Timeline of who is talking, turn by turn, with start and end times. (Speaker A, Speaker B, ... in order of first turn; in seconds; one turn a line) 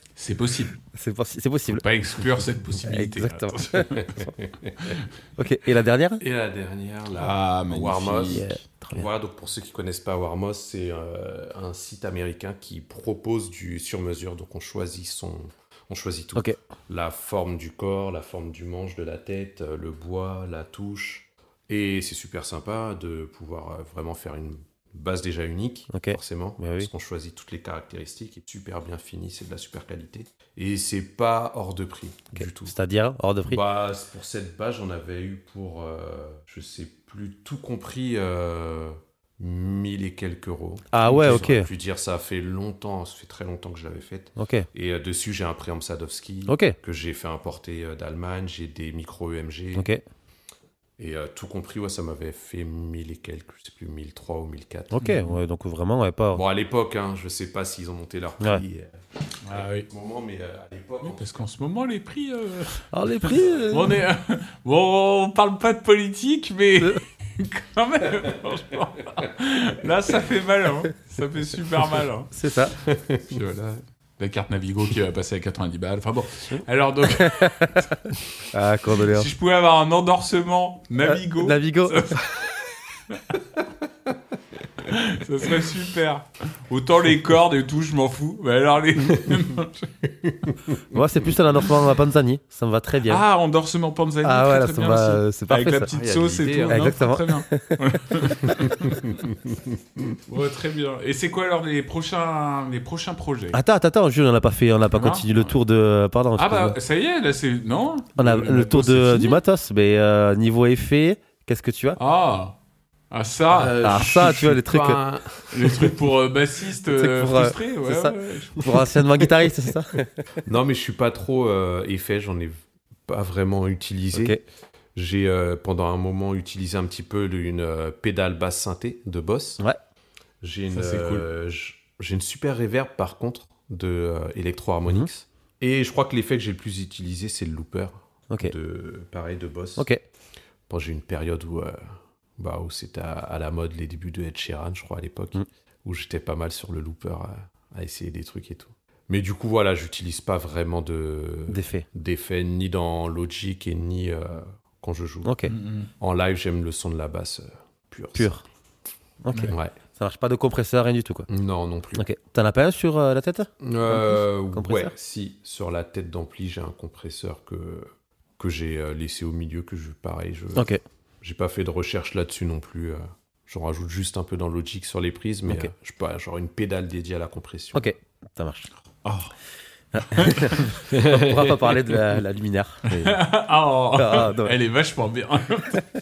Speaker A: 0.1-0.8
Speaker B: 0.9-1.8
Speaker A: 1.7-4.2
Speaker B: 2.8-4.3
Speaker C: 4.2-4.9
Speaker B: 5.4-6.2
Speaker C: 6.2-32.7
Speaker A: 7.1-8.5
Speaker B: 8.3-9.1
Speaker B: 25.9-26.9
Speaker B: 32.4-33.6
Speaker C: 33.5-49.9
Speaker B: 40.9-41.7
Speaker A: 41.1-41.3
Speaker B: 44.4-44.7
Speaker B: 46.5-46.8
Speaker B: 49.7-50.0
Speaker C: 51.0-55.0
Speaker B: 54.9-56.4
Speaker A: 55.0-55.4
Speaker C: 56.3-61.3
Speaker A: 59.4-59.9
Speaker A: 61.0-72.3
Speaker B: 62.9-64.0
Speaker B: 72.3-72.8
Speaker C: 72.8-73.3
Speaker A: 73.2-78.2
Speaker B: 77.2-77.9
Speaker B: 78.5-79.3
Speaker A: 79.0-83.3
Speaker B: 81.0-82.2
Speaker A: 84.8-90.1
Speaker B: 90.9-93.2
Speaker A: 93.0-99.2
Speaker B: 94.2-95.9
Speaker C: 95.9-97.0
Speaker B: 96.7-98.8
Speaker C: 98.9-100.2
Speaker A: 100.2-103.6
Speaker B: 103.5-106.8
Speaker A: 104.9-105.5
Speaker A: 106.3-109.4
Speaker B: 108.2-112.0
Speaker A: 112.0-112.5
Speaker A: 113.1-114.5
Speaker C: 113.5-116.0
Speaker B: 113.8-115.0
Speaker A: 115.5-119.0
Speaker B: 116.9-120.2
Speaker C: 120.4-122.5
Speaker C: 123.1-124.4
Speaker B: 124.1-124.4
Speaker C: 124.9-129.6
Speaker C: 130.4-139.9
Speaker A: 130.7-131.2
Speaker B: 139.8-140.0
Speaker C: 140.7-158.3
Speaker B: 151.5-151.8
Speaker B: 155.2-155.5
Speaker A: 155.5-155.9
Speaker B: 158.2-158.4
Speaker B: 159.2-161.3
Speaker A: 159.3-159.6
Speaker C: 159.5-159.7
Speaker C: 161.3-162.0
Speaker B: 161.9-164.9
Speaker C: 163.6-170.7
Speaker B: 170.5-170.8
Speaker C: 171.2-177.8
Speaker B: 177.7-178.7
Speaker A: 179.0-179.3
Speaker B: 179.9-183.2
Speaker A: 180.1-180.7
Speaker C: 180.9-181.5
Speaker A: 182.8-185.8
Speaker B: 183.9-184.6